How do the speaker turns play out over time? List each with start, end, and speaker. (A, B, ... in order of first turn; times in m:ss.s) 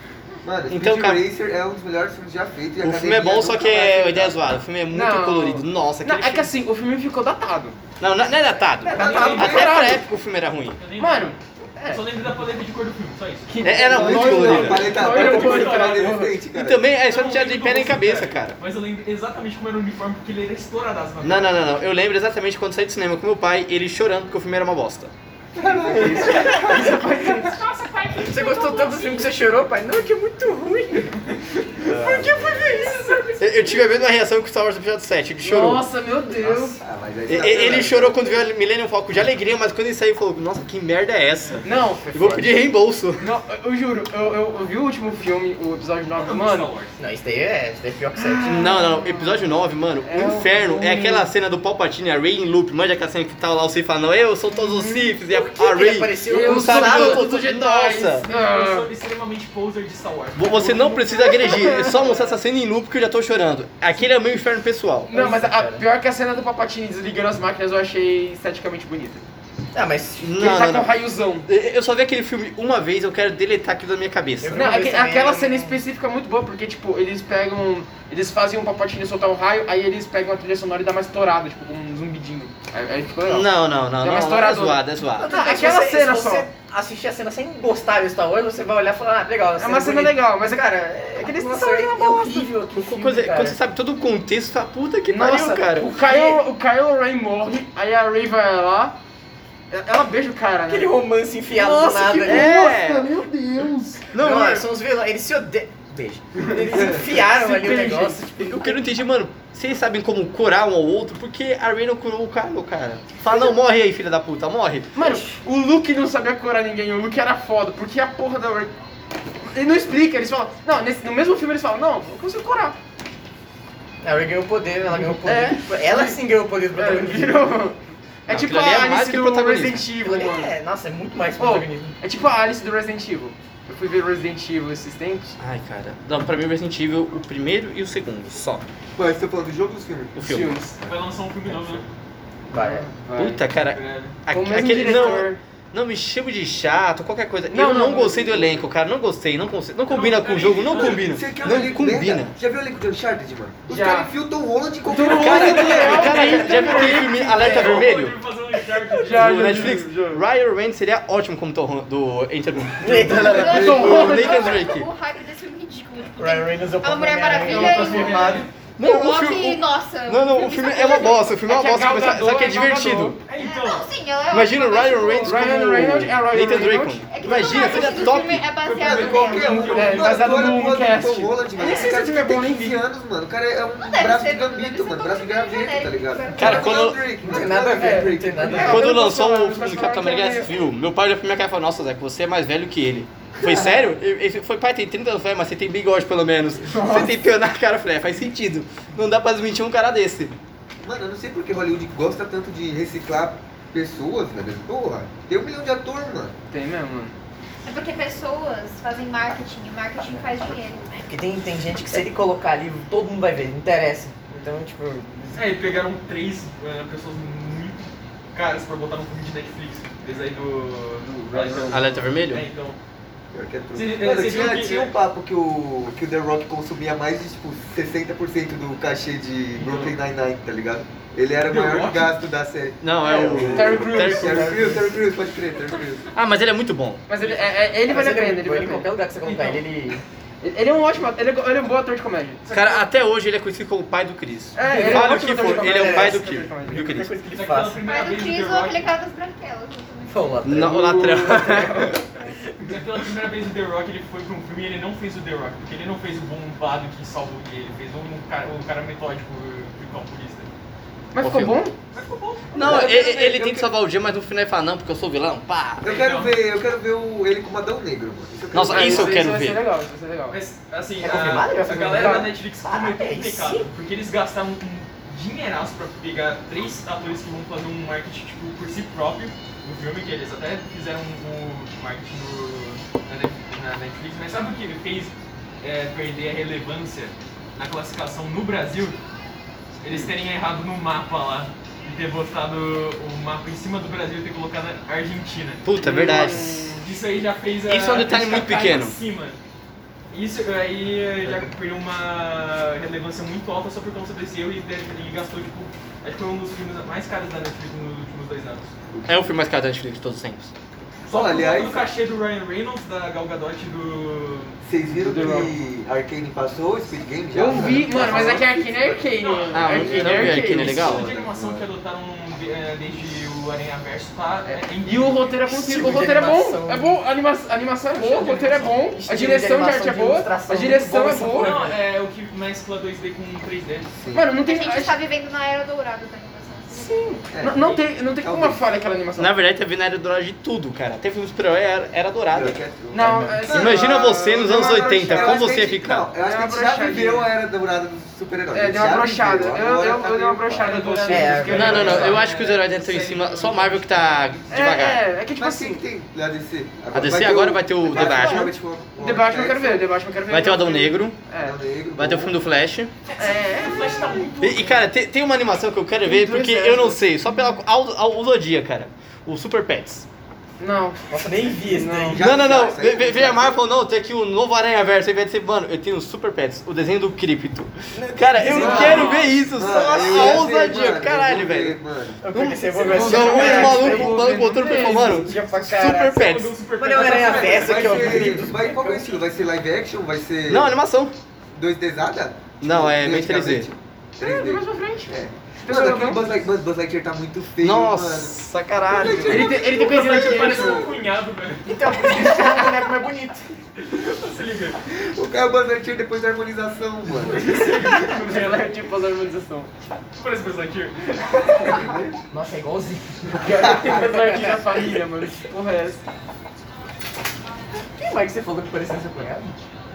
0:00.4-0:04.5 A
0:00.7-0:01.2 B
0:02.8-0:06.5 B
0:04.9-0:07.8 C
0:08.0-0:10.8 B
0:08.8-0:10.0 A
0:08.9-0:09.6 D
0:09.0-0:10.0 C
0:10.8-0:13.6 D
0:11.0-0:12.0 C
0:13.5-0:16.3 C
0:13.6-0:15.0 B
0:13.7-0:16.8 A
0:14.5-0:16.2 D
0:16.5-0:18.6 B
0:17.0-0:21.6 D
0:21.2-0:25.1 B
0:25.6-0:27.4 A
0:25.9-0:28.3 C
0:26.0-0:26.9 E
0:28.2-0:31.2 E
0:28.9-0:29.2 F
0:31.8-0:32.9 B
0:31.8-0:33.0 E
0:32.5-0:33.4 C
0:33.4-0:35.9 B
0:35.4-0:37.9 C
0:36.4-0:38.2 A
0:37.3-0:43.3 B
0:41.6-0:42.5 C
0:42.2-0:42.4 E
0:43.2-0:46.7 C
0:46.2-0:46.9 D
0:47.0-0:48.7 E
0:48.2-0:49.4 C
0:48.4-0:58.3 B
0:50.0-0:51.3 C
0:54.5-0:55.2 C
0:55.3-0:57.3 E
0:56.3-0:58.9 C
0:58.2-1:01.1 D
1:00.4-1:05.2 B
1:01.0-1:02.4 C
1:05.1-1:09.2 C
1:05.1-1:05.8 E
1:09.7-1:10.4 E
1:10.2-1:14.6 B
1:10.4-1:11.5 C
1:14.4-1:15.8 E
1:14.5-1:26.5 C
1:23.3-1:25.4 B
1:25.0-1:30.6 E
1:29.6-1:32.5 C
1:31.1-1:33.6 E
1:32.8-1:36.4 B
1:35.1-1:39.0 C
1:39.7-1:41.0 C
1:40.7-1:42.5 E
1:41.5-1:42.2 C
1:42.2-1:44.1 A
1:42.2-1:43.3 B
1:44.1-1:44.7 B
1:44.2-1:48.6 E
1:46.4-1:48.8 C
1:46.7-1:47.0 A
1:48.4-1:54.9 B
1:55.0-1:58.7 C
1:59.4-2:02.8 C
2:04.0-2:07.6 E
2:05.0-2:06.2 C
2:06.7-2:10.5 C
2:08.3-2:09.9 B
2:10.0-2:12.0 E
2:11.4-2:15.3 C
2:15.4-2:18.6 B
2:19.0-2:21.8 A
2:20.2-2:20.5 B
2:20.2-2:20.8 C
2:20.9-2:21.8 D
2:22.5-2:22.8 E
2:22.5-2:23.4 C
2:23.2-2:32.4 B
2:23.6-2:24.2 D
2:24.3-2:25.4 C
2:27.5-2:28.5 C
2:29.9-2:31.8 D
2:30.7-2:36.5 A
2:33.7-2:34.1 C
2:34.9-2:37.9 C
2:35.0-2:38.2 B
2:36.6-2:39.7 D
2:39.0-2:40.2 C
2:39.1-2:44.9 B
2:42.8-2:43.8 E
2:42.8-2:44.5 A
2:43.2-2:51.3 F
2:43.4-2:44.6 C
2:46.2-2:48.5 E
2:47.5-2:48.4 C
2:47.5-2:48.5 D
2:48.8-2:53.2 B
2:51.4-2:53.2 C
2:53.2-2:53.9 D
2:53.4-2:55.4 F
2:54.3-2:58.5 B
2:55.2-2:57.0 C
2:57.1-2:59.8 F
2:57.5-2:57.9 D
2:58.6-3:00.6 D
2:58.8-3:08.9 A
2:59.4-3:02.8 C
3:03.8-3:06.9 F
3:06.4-3:07.0 B
3:07.2-3:08.8 E
3:07.7-3:10.5 C
3:08.6-3:20.3 B
3:16.7-3:17.1 C
3:20.8-3:26.4 A
3:26.5-3:27.2 C
3:27.6-3:30.9 F
3:30.9-3:35.5 E
3:35.4-3:42.8 D
3:41.1-3:41.8 C
3:41.7-3:42.5 B
3:43.3-3:56.1 A
3:43.7-3:44.9 D
3:49.6-3:50.0 D
3:51.4-3:52.2 D
3:52.8-3:54.6 B
3:53.3-3:55.0 E
3:53.5-3:54.5 C
3:56.1-3:57.0 B
3:57.1-3:58.9 C
3:57.2-3:57.6 D
3:57.9-4:00.0 E
3:59.2-3:59.6 D
4:00.4-4:02.4 C
4:02.4-4:02.8 D
4:02.5-4:07.2 B
4:04.6-4:06.8 C
4:04.6-4:07.8 E
4:07.2-4:08.9 D
4:07.8-4:10.6 F
4:10.1-4:11.9 E
4:10.4-4:12.0 B
4:10.7-4:12.0 C
4:12.7-4:20.5 D
4:21.1-4:21.8 C
4:21.2-4:21.6 B
4:21.9-4:22.6 D
4:22.5-4:23.6 A
4:22.6-4:25.8 B
4:25.8-4:29.2 A
4:25.8-4:26.4 D
4:28.5-4:29.6 B
4:28.7-4:30.4 C
4:30.3-4:49.0 D
4:31.0-4:33.7 E
4:31.8-4:32.3 C
4:49.8-4:55.7 D
4:55.6-4:56.8 B
4:55.8-4:56.9 C
4:56.8-4:59.4 D
4:57.7-4:59.0 B
5:00.1-5:08.7 D
5:01.2-5:01.5 A
5:08.9-5:09.3 A
5:09.1-5:10.5 B
5:11.1-5:14.6 D
5:11.1-5:11.8 A
5:14.6-5:21.7 A
5:15.0-5:15.6 C
5:17.3-5:20.9 C
5:19.2-5:25.3 D
5:19.5-5:21.1 B
5:24.5-5:31.5 C
5:25.5-5:27.0 E
5:28.0-5:28.8 D
5:29.0-5:31.8 E
5:31.3-5:33.9 D
5:34.0-5:34.3 A
5:34.1-5:35.0 C
5:34.4-5:37.3 F
5:36.7-5:39.4 C
5:37.3-5:38.6 A
5:39.2-5:42.6 B
5:42.3-5:43.5 A
5:42.9-5:45.5 C
5:43.0-5:43.5 E
5:43.5-5:46.1 B
5:45.1-5:50.8 A
5:46.2-5:47.3 C
5:48.5-5:52.2 C
5:50.6-5:54.4 D
5:51.1-5:52.2 E
5:51.5-5:55.0 B
5:51.6-5:52.1 A
5:54.5-5:55.8 C
5:55.4-5:59.9 A
5:56.9-5:58.5 B
5:57.8-6:01.6 C
6:00.3-6:01.2 B
6:01.4-6:02.4 A
6:02.0-6:02.9 B
6:03.1-6:04.8 D
6:03.2-6:04.3 C
6:04.4-6:10.0 B
6:06.0-6:07.0 C
6:10.6-6:12.2 C
6:11.1-6:12.3 E
6:12.1-6:13.6 A
6:12.2-6:21.8 B
6:17.9-6:19.2 E
6:18.5-6:19.2 C
6:18.5-6:22.3 A
6:18.7-6:19.4 D
6:22.2-6:26.2 E
6:22.3-6:26.6 B
6:22.8-6:25.4 C
6:26.1-6:28.4 D
6:26.8-6:29.2 E
6:26.9-6:30.8 A
6:30.5-6:31.1 B
6:31.6-6:40.9 A
6:32.6-6:33.7 B
6:34.2-6:36.3 C
6:37.6-6:39.6 B
6:39.2-6:40.9 C
6:39.6-6:41.8 D
6:41.6-6:43.5 E
6:42.0-6:42.9 C
6:43.8-6:44.8 D
6:44.8-6:47.6 A
6:47.2-6:48.8 D
6:47.4-6:49.7 C
6:50.2-6:51.9 D
6:51.6-6:52.1 A
6:52.3-6:54.8 E
6:53.3-6:56.0 C
6:58.0-6:59.6 E